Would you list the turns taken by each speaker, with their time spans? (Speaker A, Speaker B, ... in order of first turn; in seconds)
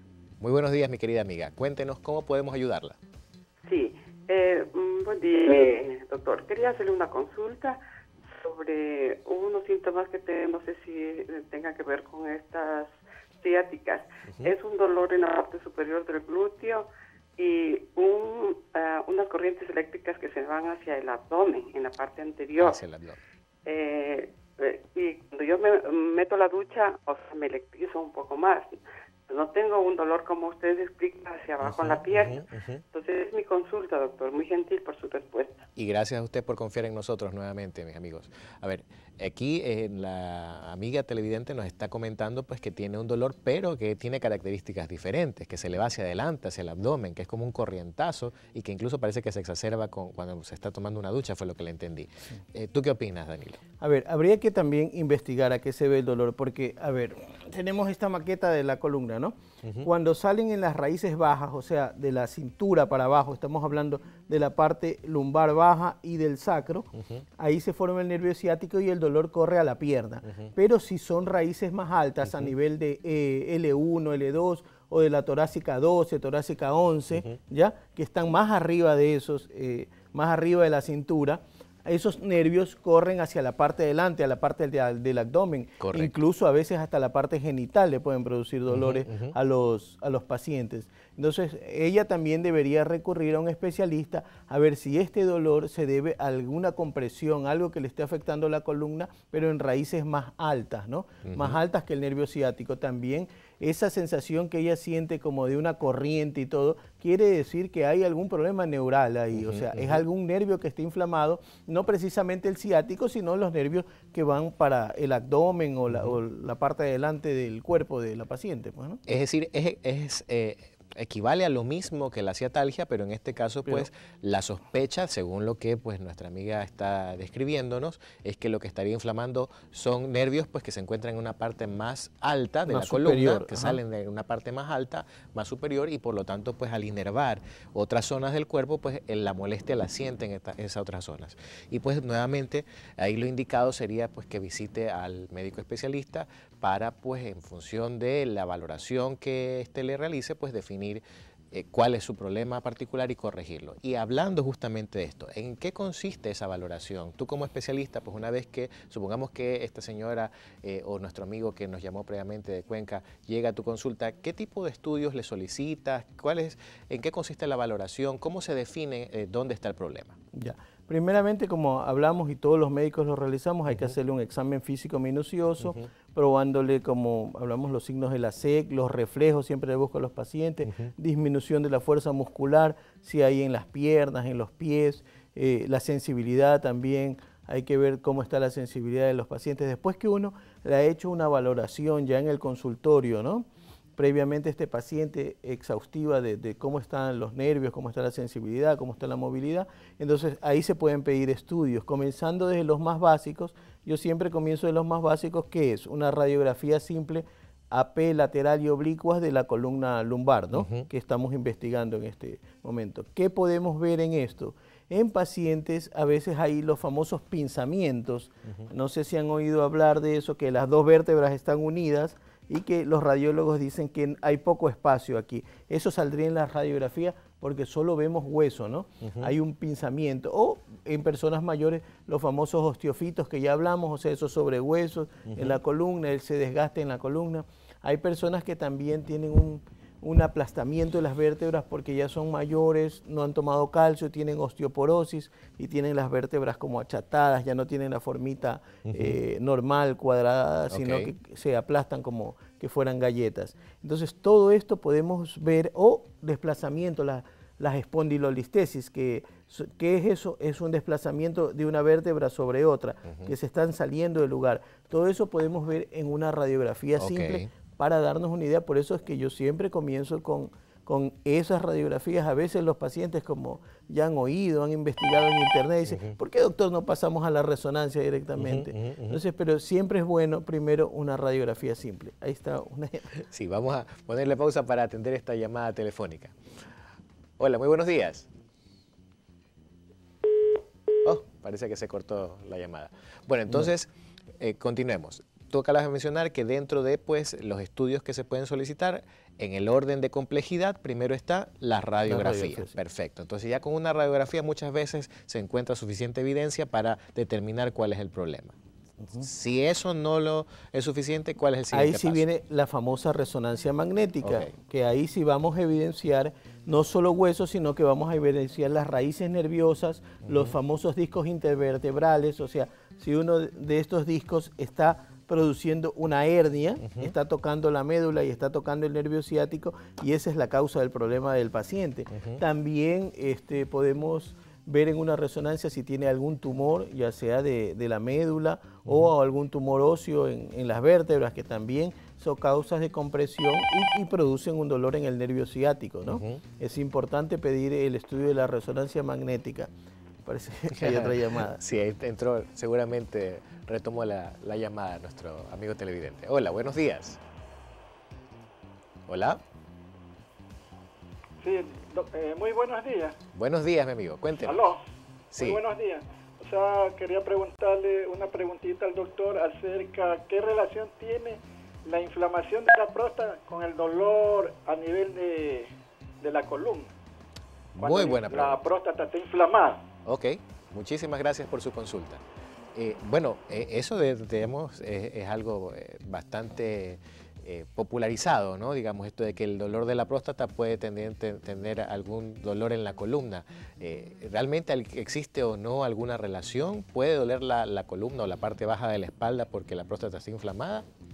Speaker A: 0.4-3.0, 22.6-23.2, 31.6-32.8, 35.8-53.6, 59.6-59.9, 85.8-86.1, 88.7-89.3, 101.2-101.6, 109.3-110.0, 119.1-170.2, 180.7-180.9, 210.5-210.9, 229.0-229.3, 235.3-235.6, 248.9-249.2, 250.7-251.1, 267.0-267.5, 275.9-276.2, 278.4-279.2, 283.2-286.4, 287.4-288.3, 291.0-308.5, 309.2-312.2, 314.2-314.5, 320.3-320.5, 326.8-327.1, 332.1-332.4, 346.1-346.4, 350.7-357.2, 359.1-359.4, 363.3-364.7, 365.3-365.6, 377.8-378.6, 380.1-382.2, 382.8-400.9
Speaker B: 3.6-7.8, 8.4-22.8, 23.7-28.8, 29.3-35.7
Speaker C: 53.8-119.0, 132.7-133.8, 170.3-193.5, 194.0-283.2, 302.1-302.8, 311.7-349.7, 350.3-351.6
Speaker D: 361.4-363.1, 364.4-364.8, 365.3-375.7, 376.2-376.9, 377.8-379.8